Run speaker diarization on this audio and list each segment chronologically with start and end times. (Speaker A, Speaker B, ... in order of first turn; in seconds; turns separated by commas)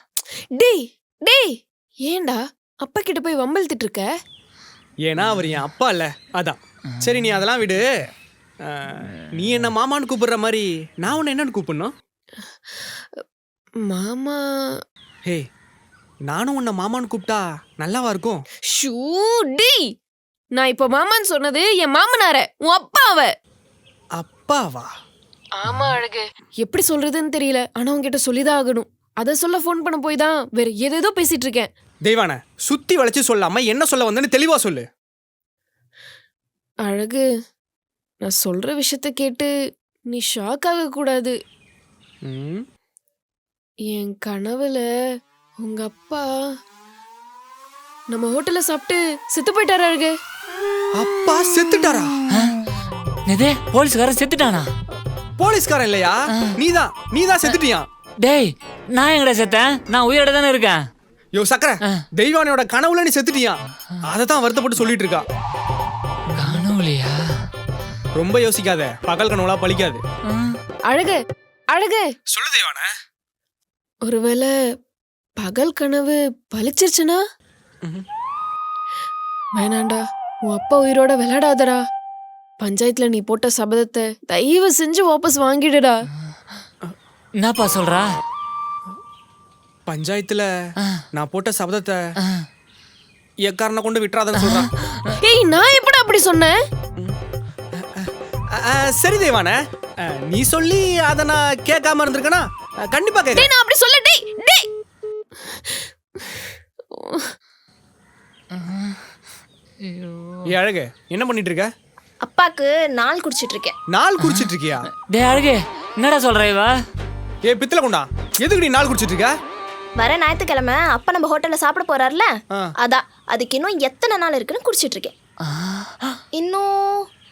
Speaker A: 0.6-4.1, Speaker B: 5.0-7.9, Speaker B: 8.6-11.9, Speaker A: 13.8-14.4, Speaker B: 16.2-18.4, Speaker A: 18.7-19.8, Speaker A: 20.6-23.3, Speaker B: 24.2-24.9, Speaker A: 25.6-31.7, Speaker B: 32.0-34.9, Speaker A: 36.9-37.2, Speaker A: 38.2-39.5, Speaker A: 40.1-41.3, Speaker B: 42.2-42.6, Speaker A: 43.9-44.9, Speaker A: 45.6-46.3, Speaker A: 48.1-50.1, Speaker B: 50.9-52.1, Speaker C: 52.3-52.5, Speaker C: 53.3-54.7, Speaker B: 55.4-57.9, Speaker C: 56.3-56.6, Speaker C: 58.2-60.8, Speaker B: 61.3-65.2, Speaker C: 66.3-67.2, Speaker B: 68.1-70.0, Speaker C: 70.3-70.6, Speaker A: 70.9-71.2, Speaker A: 71.7-72.0, Speaker B: 72.3-72.9, Speaker A: 74.1-74.5, Speaker A: 75.4-77.2, Speaker A: 79.5-81.8, Speaker A: 82.6-86.0, Speaker C: 87.4-88.1, Speaker B: 89.9-90.5, Speaker B: 91.1-92.0, Speaker B: 93.4-94.7, Speaker C: 94.3-95.0, Speaker A: 95.2-96.5, Speaker B: 97.8-103.5, Speaker A: 103.3-104.6, Speaker A: 107.0-107.2, Speaker C: 108.5-108.9, Speaker C: 109.8-110.5, Speaker B: 110.5-111.7, Speaker D: 112.2-113.8, Speaker B: 113.9-114.9, Speaker C: 114.2-114.5, Speaker C: 115.1-116.7, Speaker B: 117.5-119.3, Speaker D: 120.0-125.1, Speaker D: 126.3-126.7